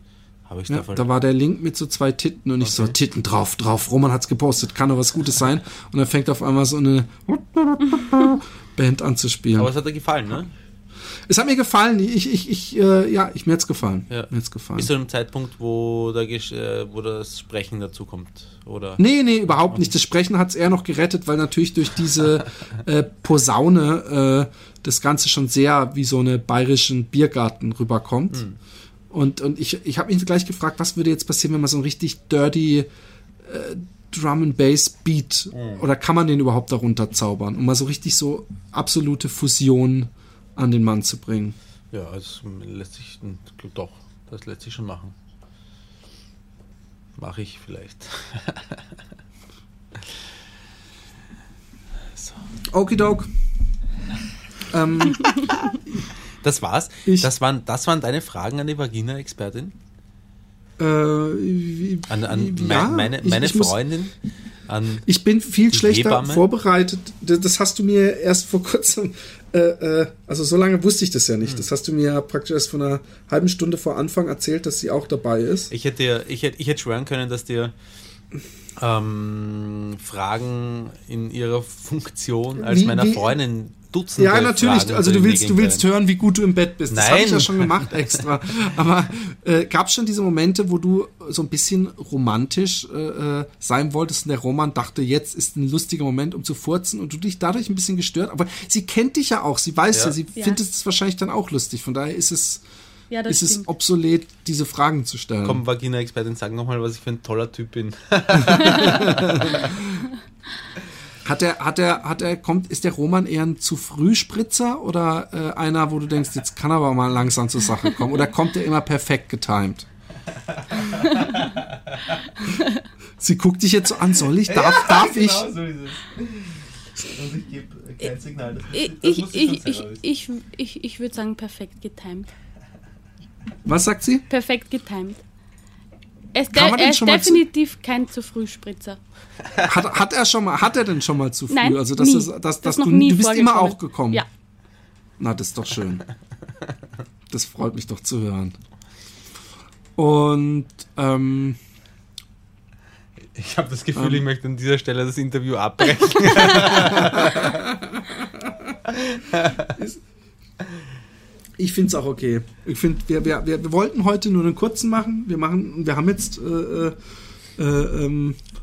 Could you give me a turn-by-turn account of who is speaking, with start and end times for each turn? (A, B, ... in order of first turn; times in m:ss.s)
0:00.5-0:01.1 A
0:00.7-0:09.7 B
0:02.6-0:02.9 A
0:09.6-0:10.5 A
0:11.3-0:14.9 B
0:14.1-0:19.0 A
0:19.0-0:28.4 B
0:29.1-0:32.9 B
0:33.4-0:41.6 B
0:35.5-0:35.8 A
0:41.9-0:45.1 A
0:47.2-0:48.8 A
0:52.1-0:52.4 A
0:52.7-0:53.3 B
0:54.7-0:55.5 B
0:56.4-0:59.7 A
1:00.8-1:03.8 B
1:02.1-1:04.1 A
1:04.7-1:05.0 A
1:05.0-1:15.7 B
1:05.7-1:06.4 A
1:15.7-1:17.7 A
1:18.8-1:25.8 A
1:22.6-1:23.4 B
1:24.2-1:42.6 B
1:26.9-1:27.9 A
1:43.1-1:43.7 C
1:43.3-1:45.6 B
1:45.4-1:49.8 A
1:48.4-1:50.0 B
1:51.2-1:59.9 B
2:00.5-2:02.0 A
2:02.5-2:02.8 C
2:03.2-2:05.5 B
2:04.4-2:10.0 A
2:08.7-2:12.3 C
2:13.6-2:14.2 B
2:14.3-2:15.2 C
2:16.3-2:19.0 C
2:16.5-2:17.4 B
2:19.6-2:24.2 B
2:21.5-2:24.2 C
2:25.2-2:26.0 B
2:27.3-2:28.6 B
2:30.0-2:31.6 B
2:33.4-2:37.6 A
2:33.9-2:34.2 B
2:36.5-2:38.7 B
2:38.9-2:39.8 A
2:39.8-2:40.0 B
2:41.6-2:47.0 B
2:47.6-2:48.4 B